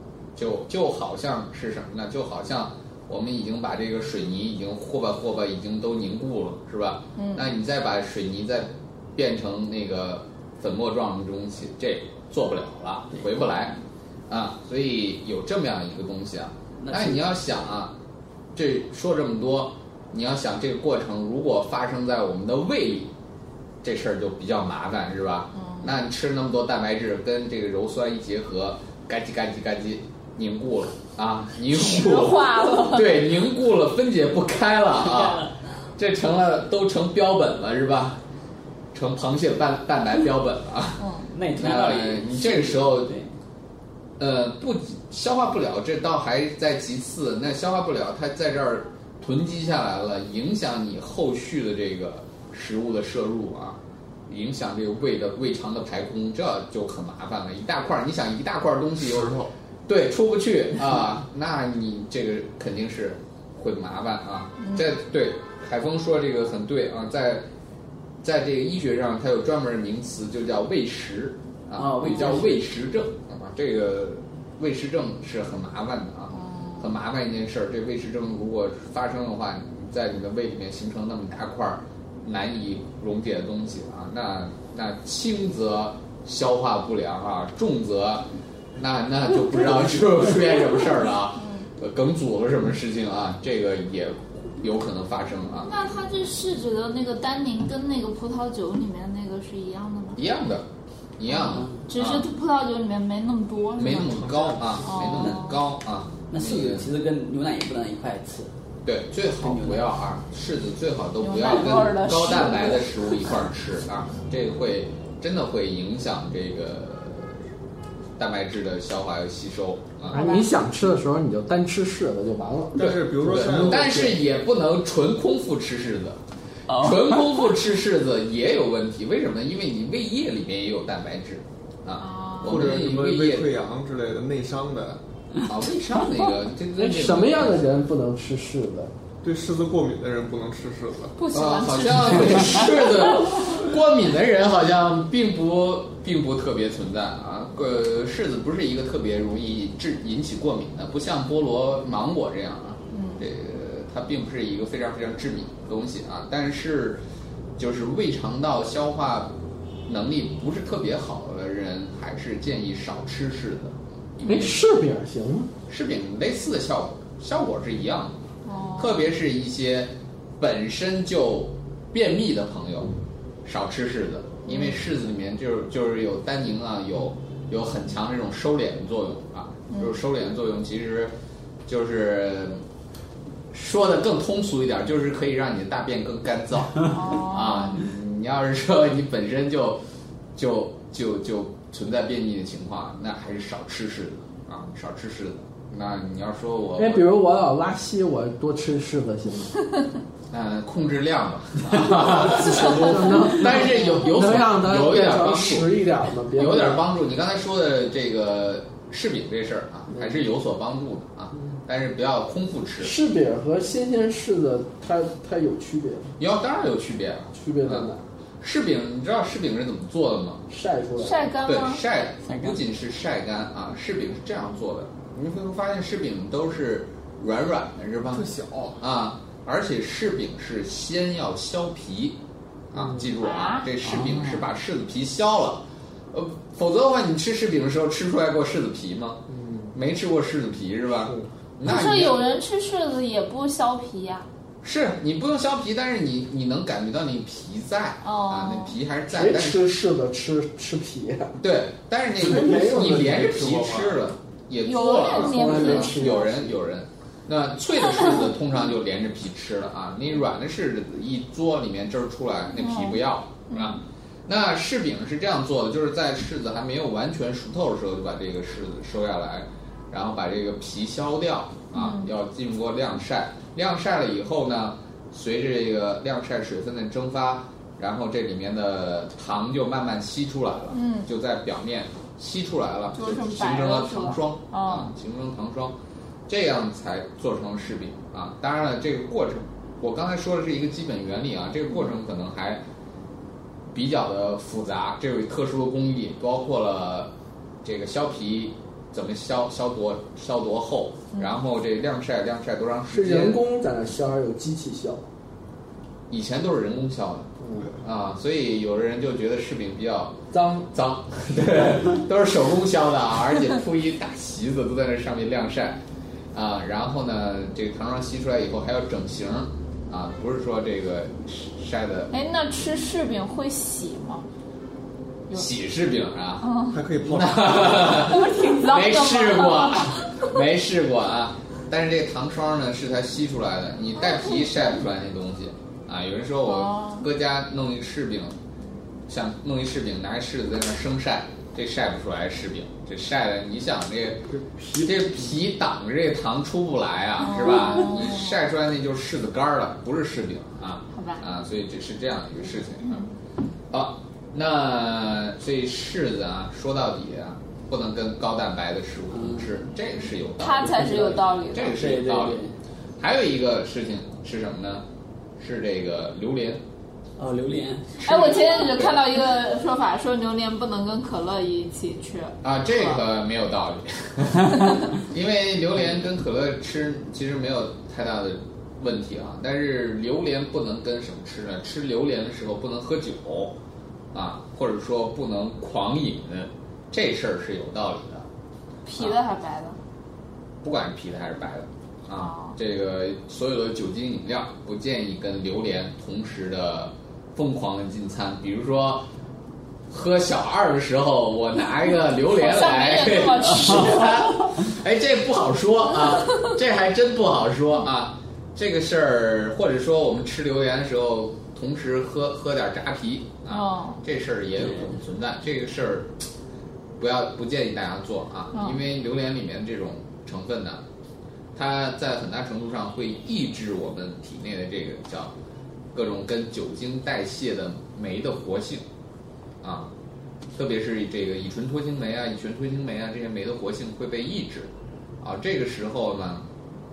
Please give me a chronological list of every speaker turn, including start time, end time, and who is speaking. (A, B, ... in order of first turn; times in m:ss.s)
0:00.4-0:13.8 A
0:07.2-0:07.5 B
0:14.3-0:17.9 A
0:16.8-0:17.2 C
0:18.6-0:23.1 A
0:23.8-0:38.2 A
0:25.6-0:25.9 B
0:31.7-0:33.3 B
0:35.0-0:35.5 C
0:38.9-0:43.2 A
0:41.0-0:41.3 B
0:41.3-0:43.3 C
0:44.2-1:07.5 A
0:59.0-0:59.5 D
1:04.6-1:04.9 B
1:08.2-1:35.7 A
1:11.8-1:12.7 C
1:16.3-1:16.9 B
1:35.6-1:40.2 B
1:40.2-1:42.3 A
1:41.4-1:41.8 C
1:41.4-1:44.2 B
1:43.8-1:46.9 A
1:44.0-1:44.9 D
1:44.8-1:45.6 B
1:45.0-1:45.3 C
1:46.3-1:48.5 C
1:48.8-1:57.4 A
1:49.4-1:49.9 C
1:51.2-1:53.0 B
1:58.2-2:00.3 A
2:00.1-2:00.5 B
2:00.1-2:04.2 E
2:02.8-2:04.1 D
2:02.8-2:13.5 A
2:06.7-2:07.3 C
2:12.0-2:12.8 B
2:12.4-2:15.0 D
2:15.4-2:17.7 A
2:16.8-2:18.9 E
2:19.2-2:21.2 D
2:21.2-2:23.4 B
2:21.3-2:37.0 A
2:32.9-2:33.2 B
2:37.6-2:39.3 A
2:39.9-2:44.6 A
2:44.2-2:45.5 E
2:45.7-2:48.2 A
2:48.4-2:49.0 B
2:48.8-2:52.9 A
2:53.4-3:01.1 A
2:54.5-2:54.8 B
2:59.7-3:00.0 B
3:01.7-3:02.6 A
3:03.5-3:09.8 A
3:06.9-3:07.8 B
3:10.4-3:17.0 A
3:16.8-3:19.6 E
3:20.3-3:25.8 A
3:22.2-3:26.8 E
3:26.3-3:33.0 A
3:29.9-3:30.2 E
3:32.8-3:36.1 E
3:36.2-3:40.4 A
3:37.3-3:38.0 E
3:40.5-3:41.3 E
3:41.0-3:41.8 B
3:41.4-3:48.3 A
3:42.2-3:42.6 C
3:48.1-3:48.8 D
3:48.8-3:52.2 A
3:52.7-3:59.2 A
3:53.2-3:53.7 B
3:59.3-3:59.7 E
3:59.7-4:02.2 A
4:01.6-4:04.3 B
4:04.6-4:09.7 A
4:08.0-4:08.8 B
4:09.1-4:11.4 E
4:11.4-4:45.8 A
4:12.2-4:14.0 D
4:12.2-4:13.2 E
4:14.6-4:16.4 B
4:15.1-4:16.4 E
4:22.6-4:23.8 B
4:31.7-4:32.1 B
4:40.7-4:41.1 B
4:42.9-4:44.9 B
4:46.3-4:52.6 A
4:53.7-4:57.1 A
4:57.6-5:03.4 A
5:02.9-5:05.0 E
5:06.1-5:10.2 A
5:07.4-5:07.7 E
5:10.3-5:10.7 E
5:10.7-5:15.8 A
5:16.3-5:22.1 A
5:22.1-5:24.2 B
5:25.3-5:38.4 A
5:26.4-5:26.8 B
5:26.7-5:28.0 D
5:27.9-5:30.3 B
5:34.0-5:34.8 B
5:36.4-5:37.1 B
5:39.1-5:53.0 A
5:47.2-5:48.4 B
5:50.9-5:51.2 B
5:53.7-6:02.4 A
5:59.1-5:59.5 C
6:00.4-6:01.8 B
6:00.6-6:02.6 C
6:03.0-6:04.8 A
6:05.4-6:06.6 A
6:07.2-6:08.0 C
6:08.0-6:09.0 A
6:08.0-6:12.4 B
6:12.4-6:23.6 A
6:24.1-6:28.3 A
6:28.8-6:29.8 B
6:30.6-6:39.1 A
6:32.2-6:32.6 B
6:39.9-6:56.2 A
6:42.2-6:44.3 B
6:53.5-6:54.0 B
6:54.6-6:54.9 C
6:57.0-7:00.8 A
6:58.5-6:58.8 B
7:01.6-7:05.3 A
7:05.9-7:08.9 A
7:09.6-7:09.9 A
7:10.6-7:16.5 A